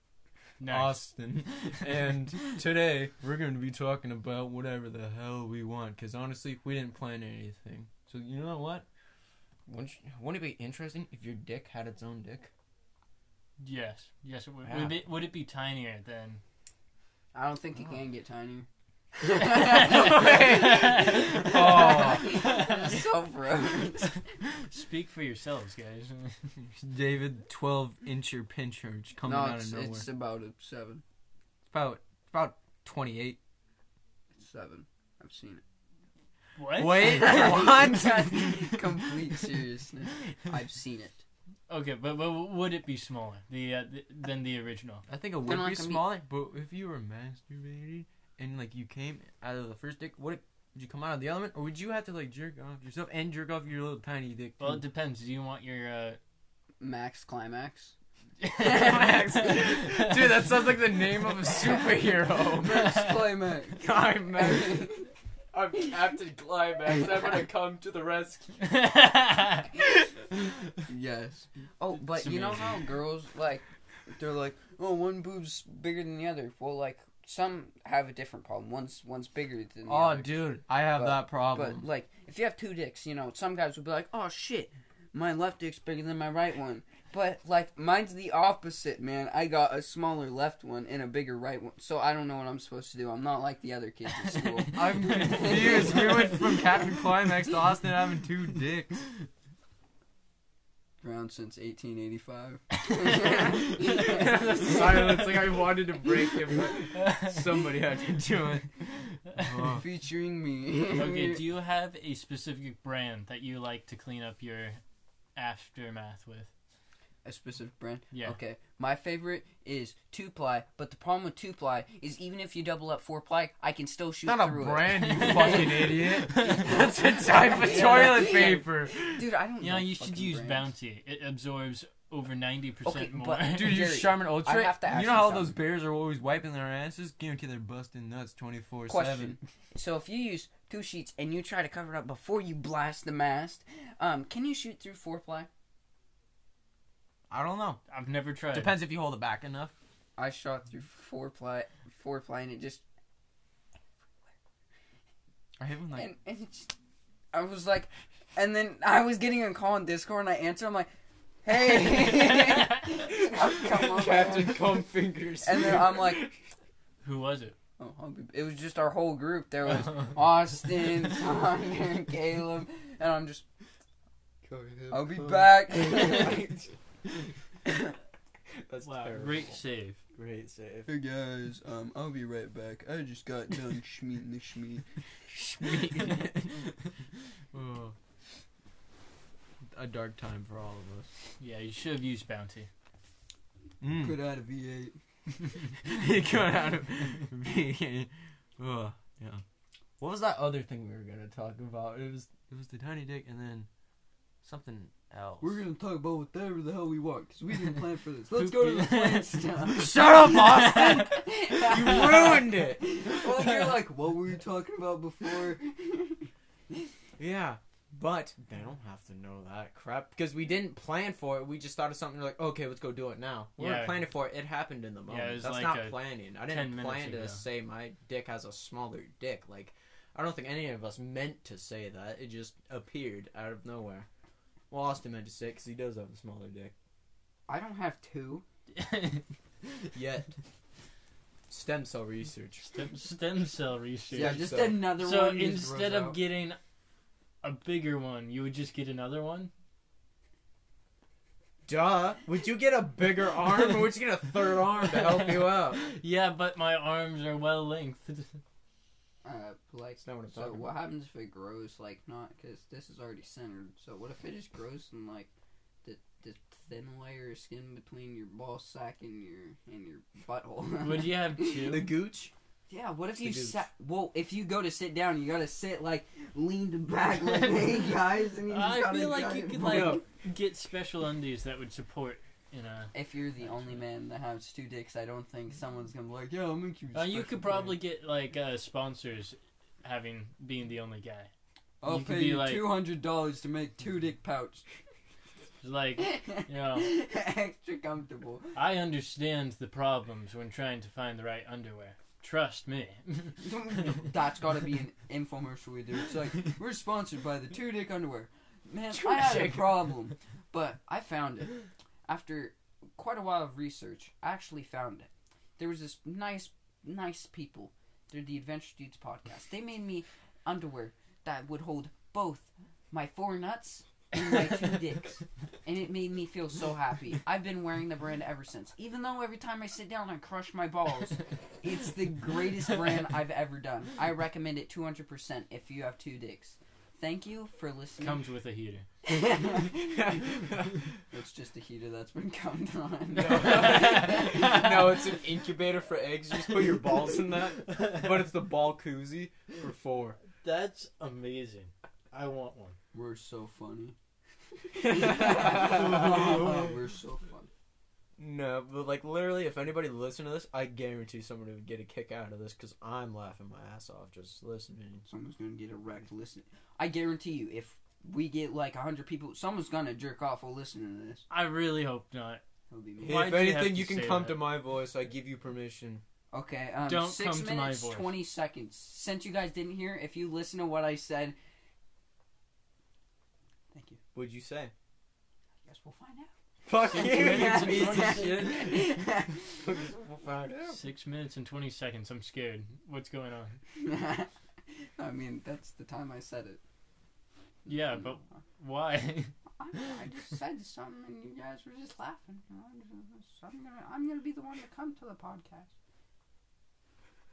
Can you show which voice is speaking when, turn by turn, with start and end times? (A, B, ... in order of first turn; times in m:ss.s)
0:00.6-0:01.1 A
0:00.7-0:08.8 B
0:09.7-0:12.5 B
0:13.6-0:16.4 A
0:14.6-0:15.0 B
0:17.3-0:24.2 C
0:19.5-0:22.5 B
0:20.1-0:23.1 A
0:24.1-0:26.5 A
0:26.6-0:30.1 B
0:29.2-0:31.0 C
0:31.7-0:33.4 B
0:34.4-0:35.6 C
0:36.6-0:37.8 A
0:36.7-0:38.8 B
0:37.0-0:41.2 C
0:41.7-0:45.0 A
0:45.1-0:54.8 B
0:45.4-0:46.2 C
0:54.6-0:56.2 A
0:56.8-0:57.9 C
0:58.4-1:00.2 A
0:58.6-1:03.1 B
0:58.6-0:59.1 C
1:01.5-1:05.1 C
1:03.8-1:05.0 B
1:05.5-1:08.7 B
1:08.6-1:09.7 A
1:10.8-1:36.5 C
1:12.1-1:12.9 A
1:19.9-1:21.8 B
1:34.7-1:39.0 B
1:35.1-1:35.7 A
1:41.0-1:44.7 C
1:43.0-1:49.8 B
1:44.7-1:45.1 A
1:46.9-1:47.5 A
1:49.2-1:49.6 A
1:49.6-1:51.4 C
1:50.9-1:54.8 A
1:55.4-1:56.5 A
1:57.2-2:05.6 C
1:58.1-1:58.4 A
2:04.2-2:09.2 B
2:05.0-2:06.7 A
2:06.6-2:10.7 C
2:09.6-2:13.8 A
2:12.8-2:15.6 C
2:13.4-2:19.4 B
2:18.9-2:25.5 C
2:27.3-2:27.8 B
2:27.9-2:28.8 A
2:28.5-2:29.7 B
2:30.2-2:32.8 C
2:35.6-2:36.1 B
2:35.9-2:36.7 C
2:37.3-2:40.9 C
2:41.4-2:44.9 C
2:43.1-2:46.4 B
2:45.4-2:46.2 C
2:47.0-2:47.6 A
2:47.8-2:53.4 C
2:54.4-2:56.6 B
2:54.9-2:56.6 C
2:57.7-2:57.9 C
2:58.5-2:59.6 B
2:58.8-3:00.0 A
3:00.1-3:00.9 B
3:00.9-3:04.9 C
3:05.3-3:06.7 B
3:07.5-3:08.0 B
3:09.7-3:11.1 B
3:11.4-3:12.7 A
3:13.8-3:14.2 B
3:14.0-3:15.0 C
3:15.8-3:19.4 B
3:20.0-3:23.7 B
3:24.4-3:25.6 B
3:25.4-3:36.9 C
3:28.3-3:31.2 A
3:29.7-3:33.6 B
3:37.2-3:54.1 B
3:43.6-3:44.1 A
3:45.1-3:47.4 A
3:54.7-3:56.7 B
3:57.5-3:58.4 C
3:58.7-3:59.2 A
3:59.9-4:00.4 B
4:01.5-4:02.6 B
4:02.6-4:06.6 A
4:04.1-4:04.8 B
4:04.1-4:06.2 C
4:07.4-4:09.5 A
4:11.7-4:15.8 B
4:14.8-4:18.4 A
4:19.2-4:25.3 C
4:20.0-4:20.7 B
4:25.8-4:31.8 C
4:30.8-4:31.9 A
4:31.7-4:32.3 B
4:32.7-4:40.0 C
4:33.2-4:33.6 B
4:38.5-4:42.9 A
4:39.6-4:40.0 B
4:42.9-4:47.8 C
4:46.9-4:51.3 A
4:51.8-4:54.6 C
4:51.8-4:52.7 A
4:55.6-4:57.0 A
4:56.0-4:58.6 C
4:58.6-5:03.9 A
5:03.4-5:11.5 C
5:08.9-5:09.9 B
5:12.1-5:38.2 C
5:38.0-5:38.8 A
5:39.0-5:40.3 C
5:39.7-5:40.8 B
5:41.1-5:44.7 C
5:43.1-5:50.2 B
5:43.5-5:44.5 A
5:50.4-5:52.8 A
5:52.9-5:53.9 C
5:54.7-5:57.5 C
5:54.8-5:56.7 B
5:58.2-6:05.0 B
6:05.1-6:11.2 C
6:11.3-6:12.4 A
6:12.7-6:13.2 C
6:13.0-6:14.4 A
6:13.0-6:16.0 B
6:16.3-6:21.4 C
6:16.9-6:18.1 A
6:23.7-6:24.0 C
6:24.1-6:24.7 B
6:25.6-6:26.3 C
6:26.7-6:28.9 B
6:26.8-6:29.6 C
6:26.9-6:28.7 A
6:29.6-6:30.8 B
6:30.7-6:33.6 A
6:33.8-6:34.3 C
6:35.0-6:36.6 C
6:37.6-6:38.0 C
6:37.6-6:39.9 A
6:39.6-6:45.7 C